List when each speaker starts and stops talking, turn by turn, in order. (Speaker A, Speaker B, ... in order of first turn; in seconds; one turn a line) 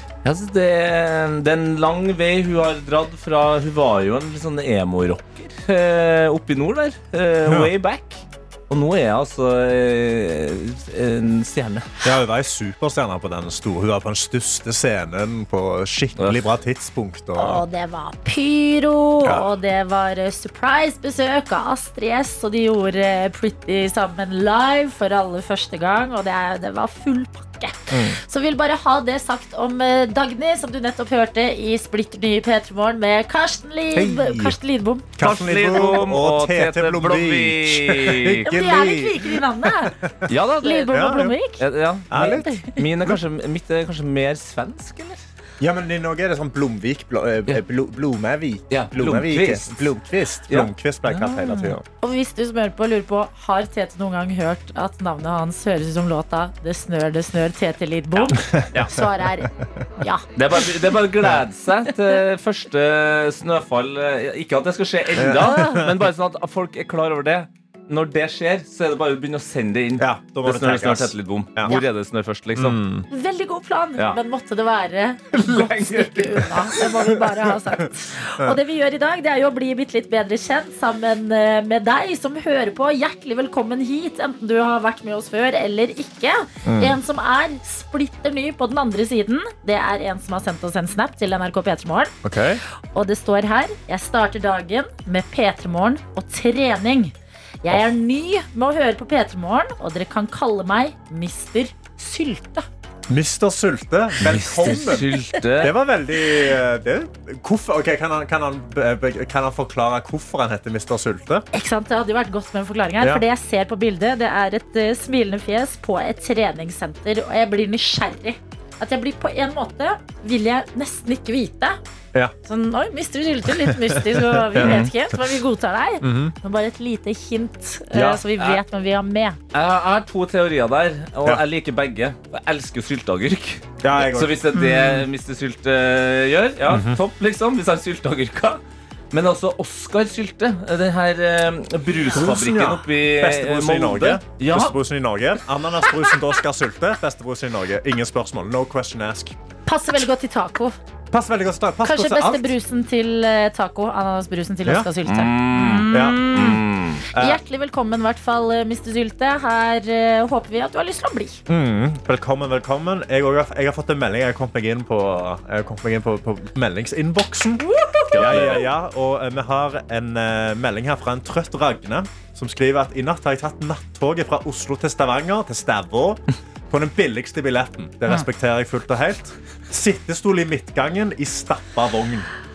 Speaker A: 0.2-11.9
Speaker B: 7.5-7.7
Speaker B: 12.0-17.6
Speaker A: 16.2-16.4
Speaker C: 17.4-35.1
Speaker B: 27.9-28.2
Speaker B: 33.9-34.6
Speaker B: 35.2-40.3
Speaker A: 35.2-38.5
Speaker C: 38.5-40.0
Speaker A: 40.3-41.0
Speaker C: 40.6-41.6
Speaker B: 40.9-41.4
Speaker A: 41.6-45.2
Speaker B: 42.1-43.2
Speaker C: 42.1-42.8
Speaker B: 45.6-51.8
Speaker A: 48.7-49.9
Speaker C: 51.2-60.3
Speaker A: 58.2-59.0
Speaker B: 58.4-58.7
Speaker A: 60.4-72.8
Speaker B: 65.2-66.0
Speaker B: 70.0-71.7
Speaker B: 72.6-73.1
Speaker C: 73.1-92.1
Speaker A: 75.4-76.8
Speaker B: 86.7-87.0
Speaker B: 92.2-92.6
Speaker C: 92.9-97.1
Speaker C: 97.6-102.7
Speaker B: 103.1-111.5
Speaker A: 104.2-105.7
Speaker C: 111.5-121.8
Speaker C: 122.4-129.4
Speaker B: 123.7-124.9
Speaker A: 124.6-124.9
Speaker B: 126.0-126.3
Speaker B: 127.9-128.2
Speaker A: 129.5-138.6
Speaker B: 133.8-134.4
Speaker C: 134.5-135.0
Speaker B: 136.7-137.0
Speaker A: 139.1-144.8
Speaker B: 142.1-149.4
Speaker C: 149.7-150.8
Speaker B: 151.1-152.5
Speaker C: 151.8-161.4
Speaker A: 155.1-157.1
Speaker B: 155.9-156.3
Speaker B: 157.1-157.4
Speaker B: 161.5-182.3
Speaker C: 167.6-168.2
Speaker A: 168.1-168.7